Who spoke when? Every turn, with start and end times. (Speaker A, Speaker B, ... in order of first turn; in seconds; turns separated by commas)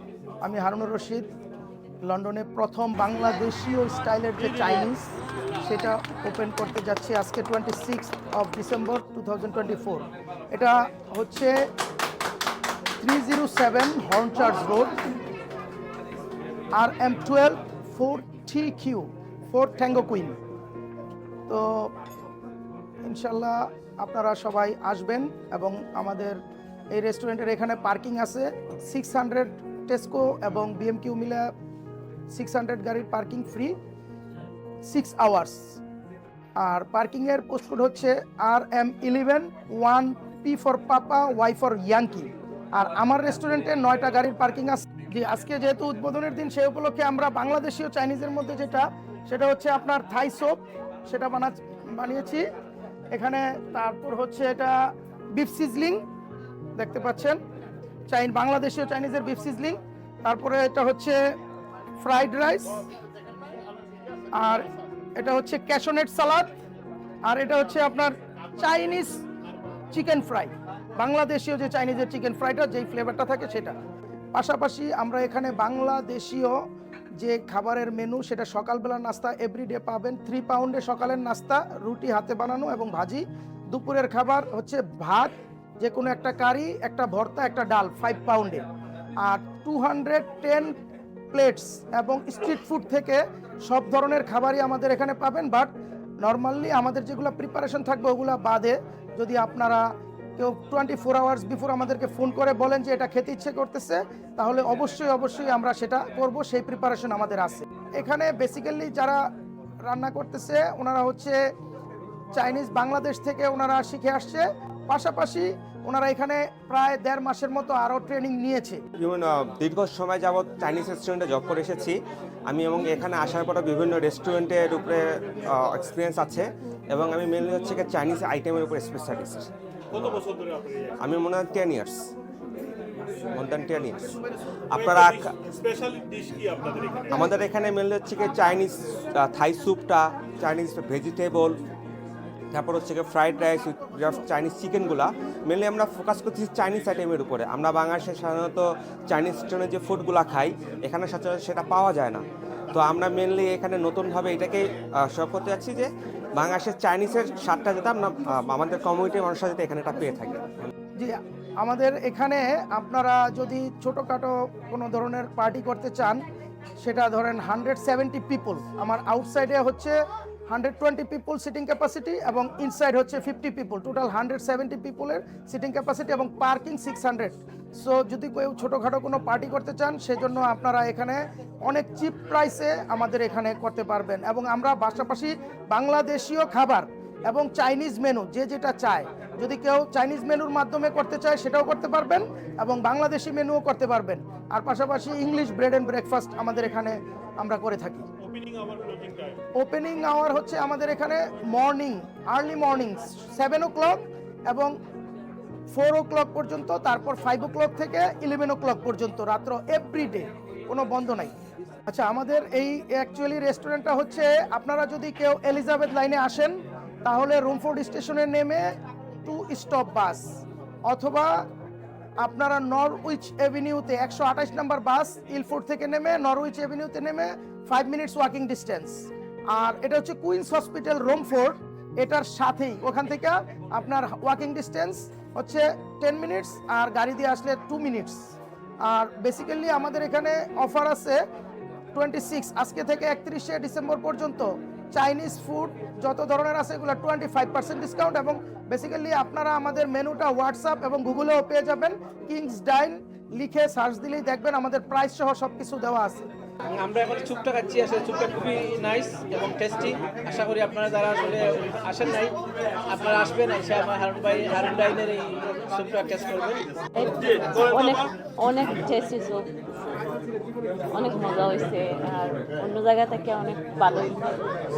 Speaker A: 0.4-1.3, Speaker A: 2.0-11.5, Speaker A: 13.0-14.9, Speaker A: 16.7-20.4, Speaker A: 21.5-21.9, Speaker A: 23.0-26.4, Speaker A: 26.9-31.5, Speaker A: 32.3-33.8, Speaker A: 34.8-35.8, Speaker A: 36.6-52.5, Speaker A: 53.1-54.8, Speaker A: 55.3-56.0, Speaker A: 56.8-57.4, Speaker A: 58.1-61.2, Speaker A: 62.0-62.8, Speaker A: 64.3-66.5, Speaker A: 67.2-69.2, Speaker A: 69.9-73.8, Speaker A: 74.3-76.5, Speaker A: 77.2-88.6, Speaker A: 89.2-90.7, Speaker A: 91.3-99.8, Speaker A: 100.4-109.2, Speaker A: 109.8-111.4, Speaker A: 112.3-118.8, Speaker B: 119.0-130.2, Speaker C: 129.9-131.0, Speaker B: 131.0-132.1, Speaker B: 133.3-134.1, Speaker B: 134.7-135.3, Speaker C: 134.7-137.2, Speaker B: 137.1-141.6, Speaker B: 142.5-160.5, Speaker A: 161.0-166.2, Speaker A: 166.8-169.9, Speaker A: 170.5-198.1, Speaker C: 198.2-199.4, Speaker A: 199.5-204.7, Speaker A: 205.7-211.3, Speaker A: 211.9-218.6, Speaker A: 219.2-220.3, Speaker A: 220.9-221.3, Speaker A: 222.2-241.2, Speaker A: 241.9-256.2, Speaker D: 256.7-262.4, Speaker D: 262.9-266.6, Speaker E: 266.9-269.5, Speaker C: 267.2-268.1, Speaker E: 270.9-274.3